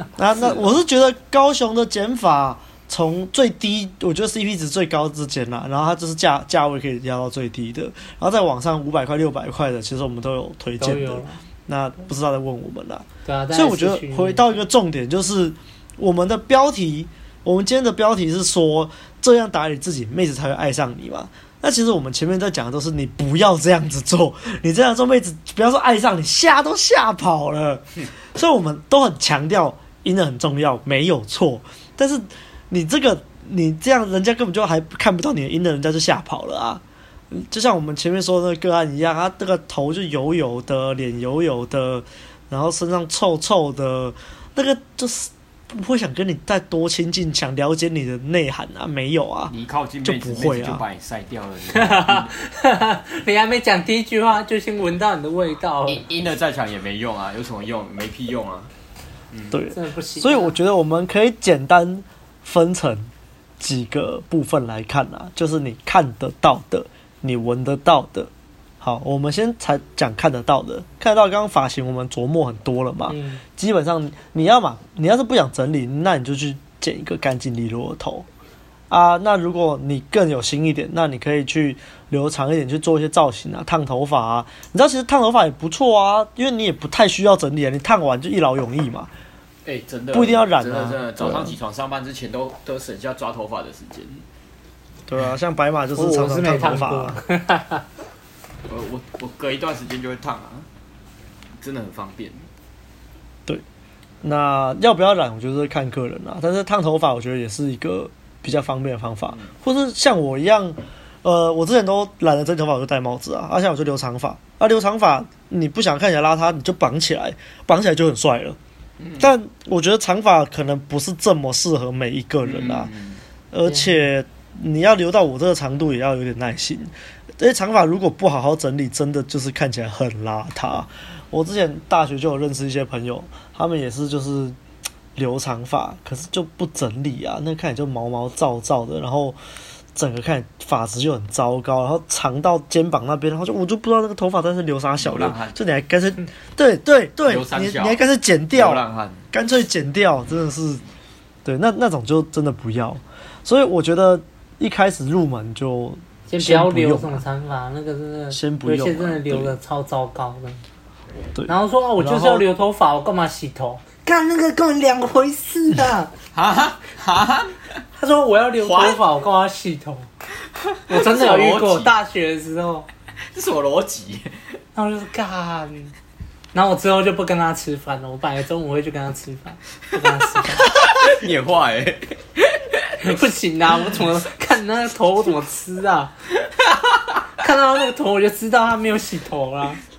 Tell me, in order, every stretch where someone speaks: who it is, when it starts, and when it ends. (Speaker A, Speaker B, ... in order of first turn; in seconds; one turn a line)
Speaker A: 0.1-49.5
Speaker B: 0.4-0.7
Speaker C: 10.8-11.4
Speaker C: 13.2-14.4
Speaker B: 49.5-52.3
Speaker A: 50.0-50.8
Speaker C: 51.7-56.0
Speaker B: 55.9-58.7
Speaker B: 59.3-59.6
Speaker A: 59.5-68.3
Speaker C: 59.7-60.5
Speaker A: 68.8-78.2
Speaker C: 73.1-73.4
Speaker A: 78.9-89.1
Speaker B: 89.7-94.2
Speaker A: 90.1-91.6
Speaker A: 95.1-97.2
Speaker C: 96.0-97.8
Speaker B: 98.7-100.7
Speaker B: 101.6-102.4
Speaker A: 104.2-118.6
Speaker B: 119.0-119.3
Speaker A: 119.2-122.9
Speaker B: 122.4-123.2
Speaker A: 123.5-134.6
Speaker C: 123.6-124.0
Speaker A: 135.2-139.4
Speaker A: 139.9-148.8
Speaker B: 145.0-145.6
Speaker B: 147.2-148.0
Speaker B: 148.5-149.2
Speaker A: 149.3-150.8
Speaker A: 151.4-157.2
Speaker C: 156.3-160.6
Speaker A: 158.3-159.6
Speaker A: 161.3-162.4
Speaker C: 161.5-166.1
Speaker B: 166.3-167.6
Speaker C: 167.9-170.1
Speaker B: 168.6-169.0
Speaker B: 170.7-171.9
Speaker C: 170.9-172.9
Speaker B: 173.3-174.3
Speaker C: 174.7-175.9
Speaker C: 176.5-180.7
Speaker B: 180.6-183.1
Speaker C: 183.0-186.1
Speaker B: 186.4-187.0
Speaker C: 187.4-189.8